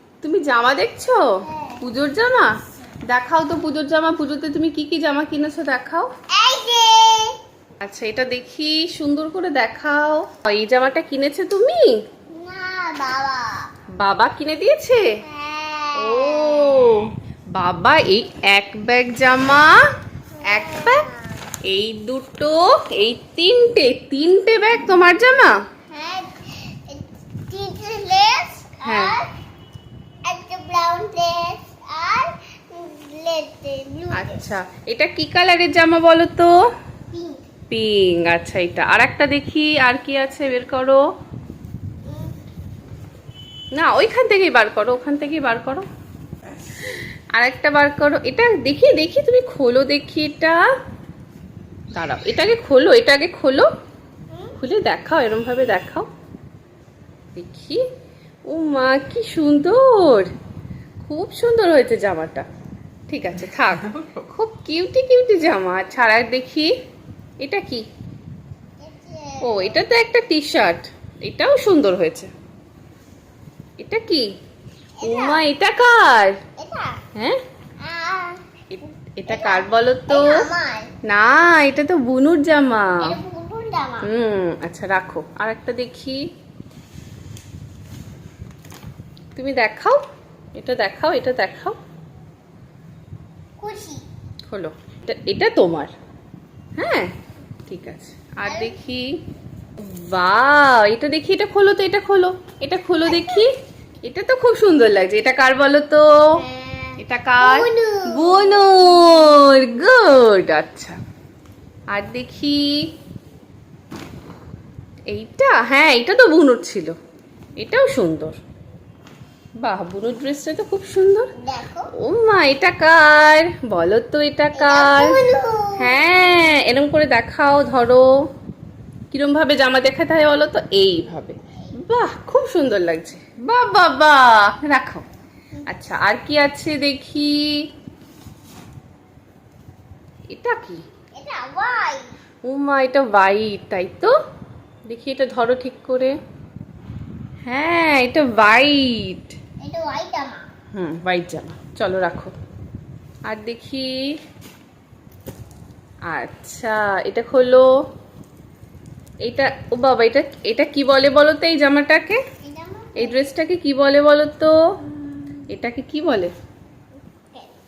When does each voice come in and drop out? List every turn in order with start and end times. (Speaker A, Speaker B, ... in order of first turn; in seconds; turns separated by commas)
Speaker A: 0.2-1.2, Speaker B: 1.4-1.8, Speaker A: 1.8-2.5, Speaker A: 3.1-6.1, Speaker B: 6.3-7.4, Speaker A: 7.8-11.9, Speaker B: 12.3-13.7, Speaker A: 14.0-15.2, Speaker B: 15.2-17.0, Speaker A: 15.9-19.7, Speaker A: 20.4-21.0, Speaker B: 20.4-21.3, Speaker A: 21.6-25.5, Speaker B: 25.9-29.3, Speaker A: 28.8-29.2, Speaker B: 30.2-34.4, Speaker A: 34.1-36.5, Speaker B: 37.1-37.4, Speaker A: 37.7-41.0, Speaker B: 42.0-42.3, Speaker A: 43.7-45.9, Speaker A: 46.9-50.6, Speaker A: 51.9-53.7, Speaker B: 54.3-54.6, Speaker A: 54.6-56.1, Speaker A: 57.3-57.8, Speaker A: 58.5-60.3, Speaker A: 61.0-62.5, Speaker A: 63.1-66.7, Speaker A: 67.4-67.8, Speaker B: 68.8-69.8, Speaker A: 69.4-72.3, Speaker A: 73.8-74.3, Speaker B: 75.0-75.4, Speaker A: 75.0-76.4, Speaker B: 76.6-77.0, Speaker B: 77.8-78.4, Speaker A: 78.7-80.5, Speaker B: 79.3-80.9, Speaker A: 81.0-83.2, Speaker B: 83.0-84.1, Speaker A: 84.0-86.2, Speaker A: 89.3-90.0, Speaker A: 90.5-91.8, Speaker B: 93.6-94.0, Speaker A: 94.5-95.9, Speaker A: 96.8-97.1, Speaker A: 97.7-99.1, Speaker B: 98.4-98.8, Speaker A: 99.8-103.5, Speaker B: 103.0-103.5, Speaker A: 104.0-106.4, Speaker B: 106.4-109.4, Speaker A: 107.0-111.0, Speaker A: 111.9-112.7, Speaker A: 115.1-116.9, Speaker A: 117.6-118.4, Speaker A: 119.6-121.3, Speaker B: 121.4-121.9, Speaker A: 122.0-125.2, Speaker B: 124.5-126.1, Speaker A: 125.8-128.1, Speaker A: 129.1-135.0, Speaker A: 135.7-137.5, Speaker A: 140.3-140.8, Speaker B: 141.2-142.0, Speaker A: 142.4-144.1, Speaker A: 144.9-146.2, Speaker A: 147.4-149.3, Speaker B: 149.6-150.4, Speaker A: 150.7-152.3, Speaker A: 153.3-153.9, Speaker A: 156.1-157.7, Speaker A: 159.2-162.2, Speaker B: 162.4-163.2, Speaker A: 162.9-164.6, Speaker A: 165.5-166.3, Speaker B: 167.0-167.6